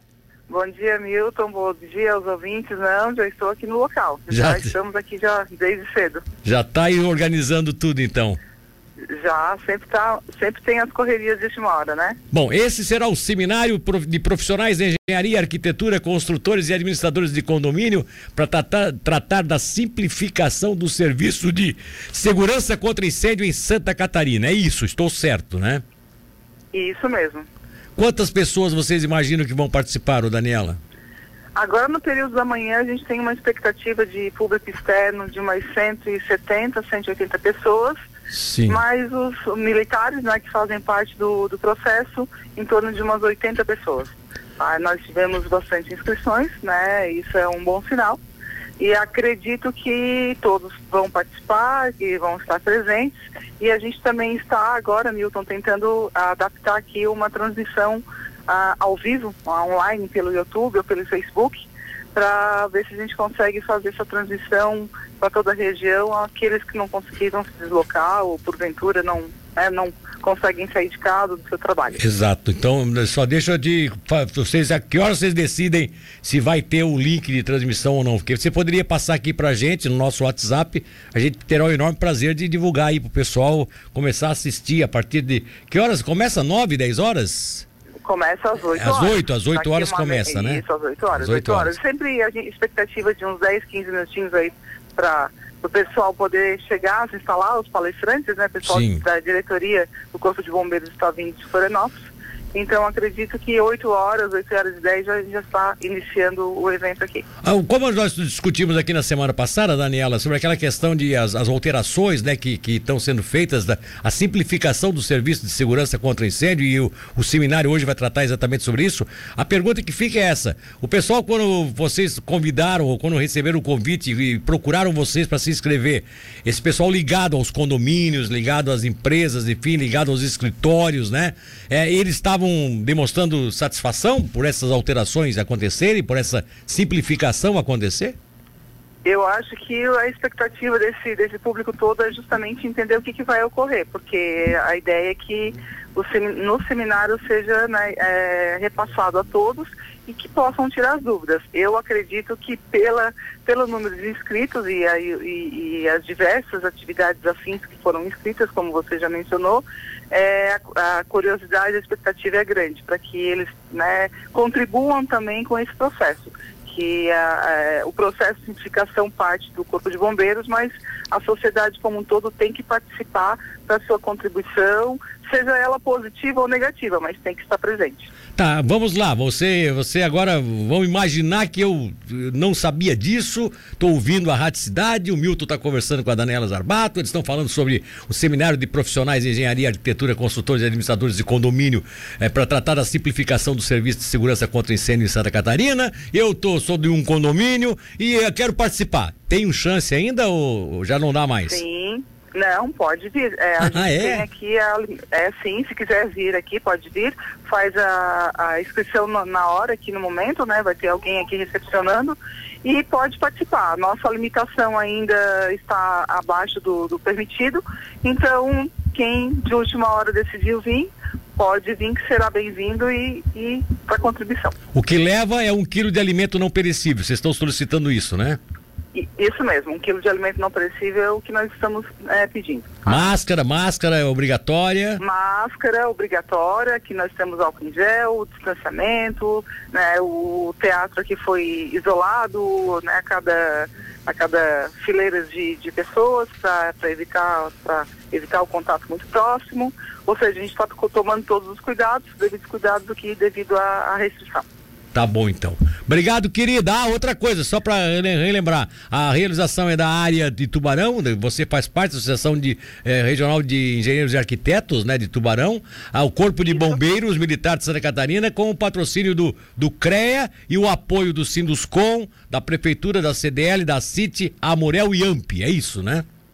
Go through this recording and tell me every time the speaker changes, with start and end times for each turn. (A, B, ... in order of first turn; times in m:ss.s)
0:00.5-0:06.2 A
0:04.3-0:04.7 B
0:06.4-0:08.4 B
0:09.1-0:12.2 A
0:12.3-0:25.8 B
0:26.7-0:27.5 A
0:28.0-0:30.8 B
0:31.6-0:38.0 A
0:38.3-0:38.8 B
0:38.7-0:48.2 A
0:48.8-1:12.0 A
1:12.0-1:27.7 B
1:28.0-1:47.2 A
1:28.7-1:30.6 B
1:31.1-1:31.7 B
1:38.6-1:39.0 B
1:47.4-2:18.2 B
2:19.0-2:58.1 A
2:58.4-3:21.6 B
3:21.5-3:44.6 A
3:23.6-3:24.3 B
3:44.7-3:48.4 B
3:48.9-3:53.1 A
3:52.9-3:55.0 B
3:55.0-4:14.4 A
4:14.9-4:36.0 B